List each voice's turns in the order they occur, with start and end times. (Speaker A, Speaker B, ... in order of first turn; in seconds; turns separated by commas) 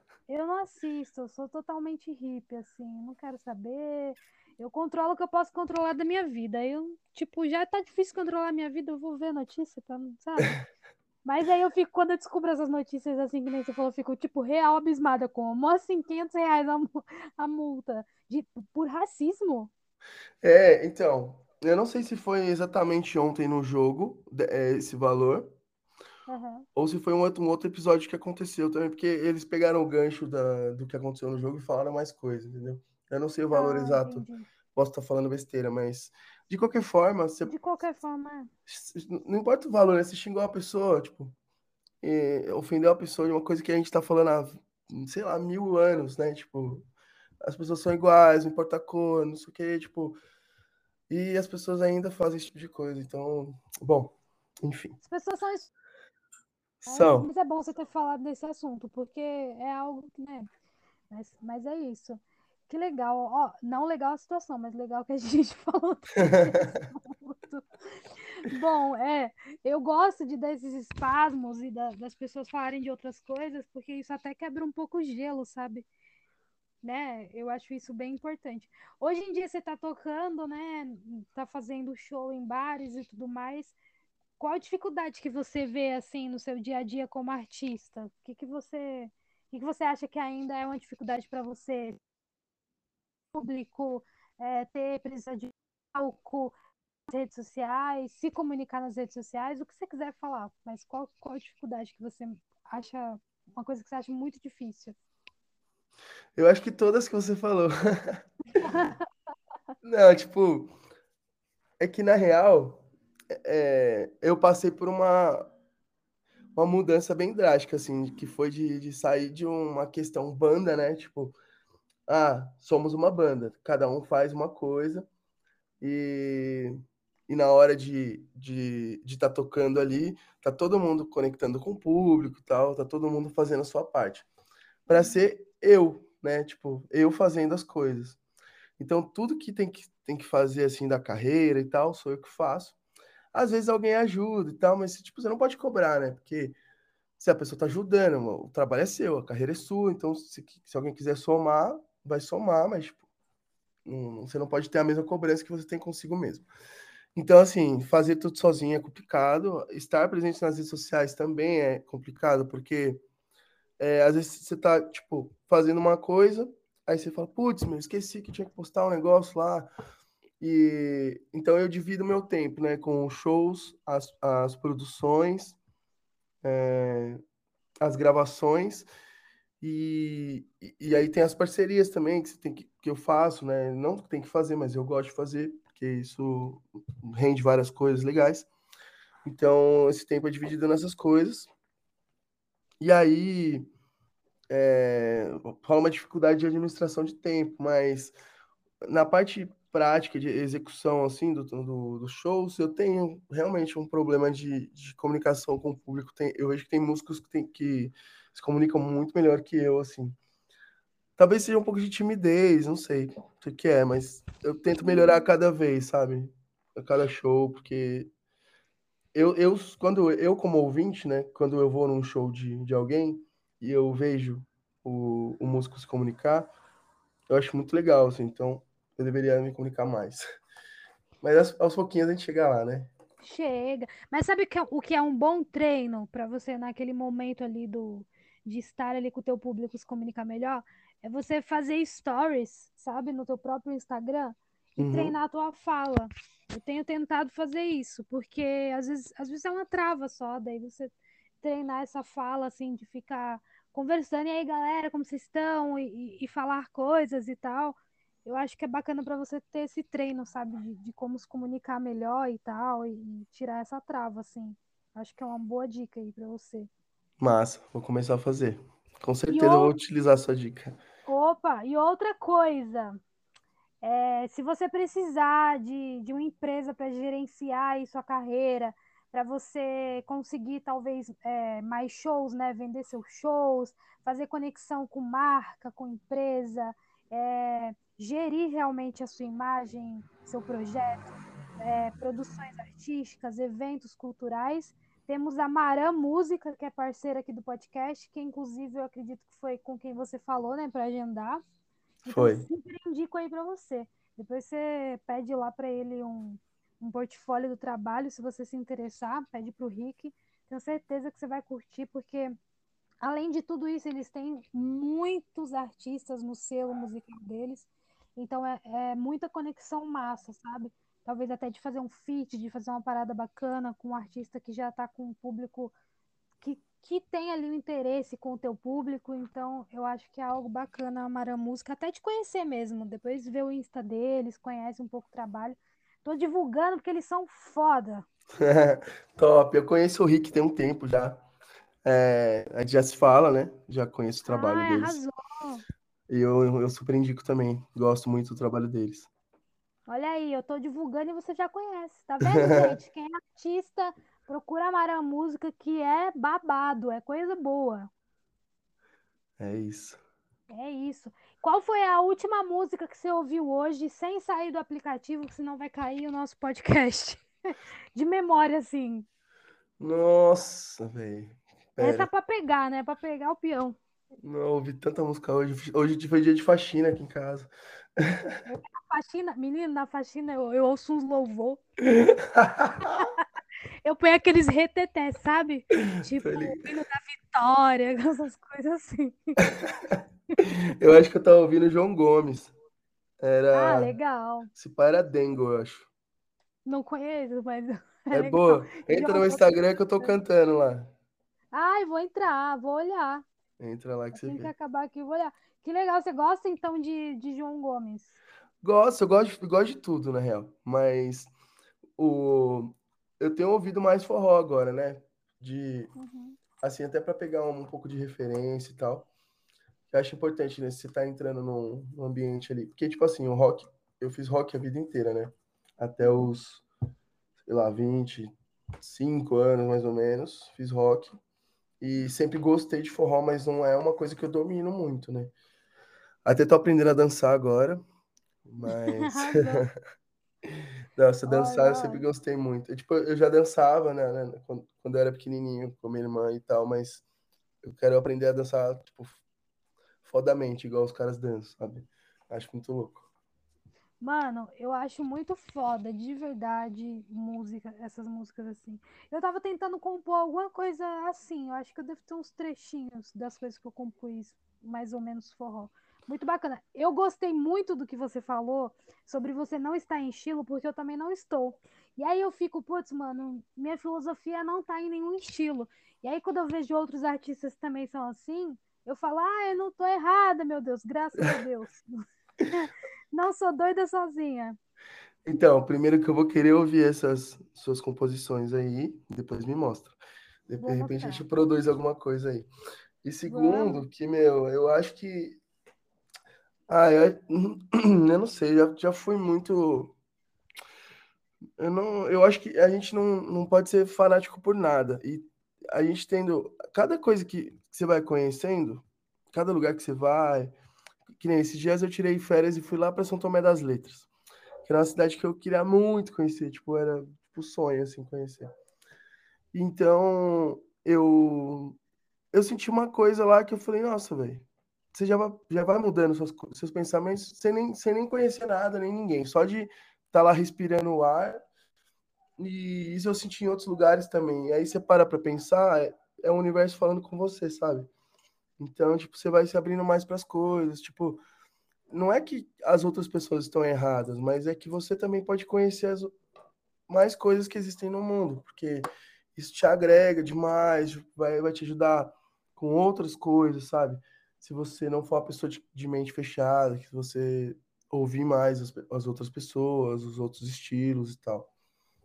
Speaker A: 0.3-10.5, Speaker A: 11.2-19.7, Speaker B: 20.4-25.5, Speaker A: 26.3-26.6, Speaker B: 26.7-37.5, Speaker A: 33.5-34.5, Speaker A: 37.5-38.5, Speaker B: 38.7-41.3, Speaker B: 42.0-46.8, Speaker B: 47.4-50.2, Speaker B: 51.1-55.0, Speaker A: 55.0-55.7, Speaker B: 56.8-57.3, Speaker A: 56.9-60.5, Speaker A: 61.1-75.9, Speaker B: 66.2-66.8, Speaker A: 76.8-83.8, Speaker A: 84.4-92.0, Speaker A: 93.3-96.5, Speaker A: 97.1-105.0, Speaker B: 106.3-108.2, Speaker A: 108.6-109.0, Speaker B: 109.8-110.7, Speaker B: 111.8-115.5, Speaker B: 116.5-121.4, Speaker B: 122.1-125.1, Speaker B: 125.8-126.8, Speaker B: 127.3-134.3, Speaker B: 134.9-138.2, Speaker A: 134.9-135.2, Speaker B: 138.8-142.8, Speaker B: 143.3-146.6, Speaker B: 147.2-153.0, Speaker B: 153.8-156.5, Speaker B: 157.1-163.0, Speaker B: 163.8-169.7, Speaker B: 170.4-175.6, Speaker B: 176.4-177.2, Speaker B: 177.8-178.9, Speaker B: 179.6-188.5, Speaker B: 189.2-191.5, Speaker B: 192.8-193.7, Speaker B: 194.5-198.1, Speaker B: 198.8-210.2, Speaker B: 211.2-218.1, Speaker A: 214.8-215.2, Speaker B: 219.1-226.5, Speaker B: 227.3-230.2, Speaker B: 231.2-232.9, Speaker A: 233.2-266.7, Speaker B: 244.8-245.2, Speaker B: 267.2-270.8, Speaker A: 269.3-269.7, Speaker A: 271.1-273.0, Speaker A: 273.8-301.4, Speaker A: 302.0-312.3, Speaker B: 302.1-302.5, Speaker A: 313.0-325.7, Speaker A: 326.4-338.1, Speaker B: 338.4-341.2, Speaker B: 341.8-345.0, Speaker A: 344.3-345.6, Speaker B: 346.1-349.1, Speaker A: 349.9-357.9, Speaker B: 352.2-352.8, Speaker B: 359.4-360.0, Speaker A: 360.5-367.3, Speaker A: 367.9-369.1, Speaker B: 369.8-372.1, Speaker A: 371.8-373.8, Speaker B: 374.2-378.4, Speaker A: 378.4-381.6, Speaker B: 381.8-383.0, Speaker A: 382.9-383.2, Speaker A: 383.8-389.3, Speaker B: 385.8-386.6, Speaker B: 389.6-392.5, Speaker B: 393.2-393.9, Speaker A: 393.5-394.5, Speaker B: 394.5-395.9, Speaker A: 396.6-400.1, Speaker B: 398.1-400.9, Speaker A: 401.5-403.2, Speaker B: 403.6-404.5, Speaker A: 404.1-408.1, Speaker B: 408.6-411.3, Speaker B: 412.0-415.9, Speaker A: 415.9-416.4, Speaker B: 416.6-419.1, Speaker B: 419.9-426.6, Speaker A: 426.0-426.3, Speaker B: 427.4-431.1, Speaker B: 431.8-435.3, Speaker B: 436.2-437.8, Speaker B: 438.4-439.7, Speaker A: 438.9-439.6, Speaker B: 440.9-447.0, Speaker A: 441.3-442.0, Speaker B: 447.6-449.2, Speaker B: 450.0-453.0, Speaker A: 454.0-481.8, Speaker A: 482.5-484.6, Speaker B: 485.2-490.0, Speaker B: 490.5-492.5, Speaker A: 490.6-491.2, Speaker B: 493.0-495.4, Speaker A: 493.2-493.8, Speaker B: 496.7-499.9, Speaker B: 501.6-510.5, Speaker B: 511.2-514.1, Speaker B: 514.6-518.5, Speaker B: 519.5-521.8, Speaker B: 522.3-531.4, Speaker B: 532.4-537.9, Speaker B: 538.6-541.2, Speaker B: 541.9-546.1, Speaker B: 546.9-548.8, Speaker B: 549.4-561.5